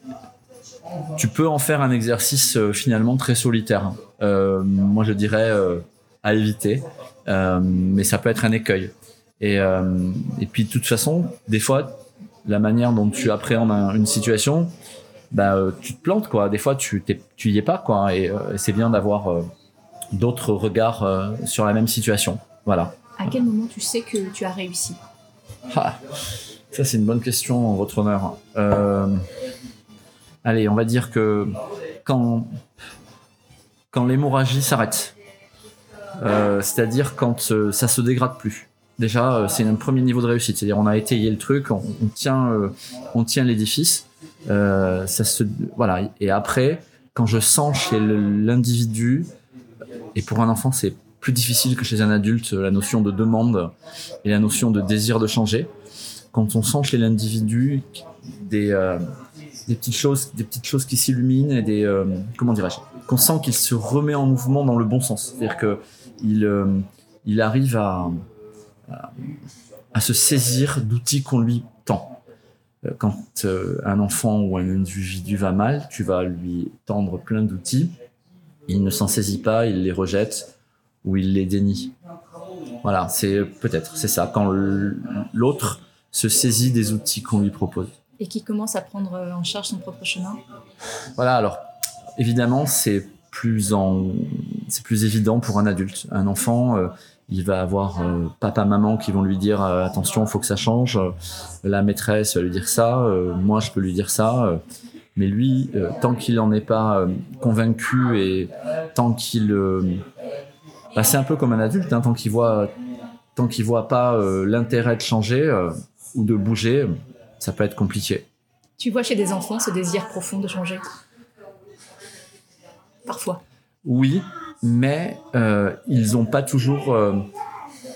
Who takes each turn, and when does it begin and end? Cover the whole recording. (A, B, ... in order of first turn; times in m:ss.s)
0:01.2-0:11.9 A
0:12.4-0:14.7 A
0:15.3-0:19.4 A
0:20.1-0:22.9 A
0:23.2-0:25.0 B
0:25.7-0:26.0 A
0:26.7-0:29.2 A
0:30.4-0:31.5 A
0:32.0-0:32.5 A
0:33.9-0:35.1 A
0:36.2-0:49.3 A
0:50.1-0:53.7 A
0:54.2-0:55.7 A
0:56.3-0:59.0 A
0:59.6-1:08.2 A
1:09.9-1:12.2 A
1:12.8-1:18.0 A
1:18.7-1:20.5 A
1:21.0-1:21.9 A
1:22.8-1:27.9 A
1:28.2-1:30.4 B
1:31.2-1:31.6 A
1:32.2-1:44.6 A
1:45.2-1:50.0 A
1:50.9-1:52.7 A
1:53.4-1:58.2 A
1:58.8-2:00.9 B
2:03.0-2:03.4 B
2:03.8-2:07.2 A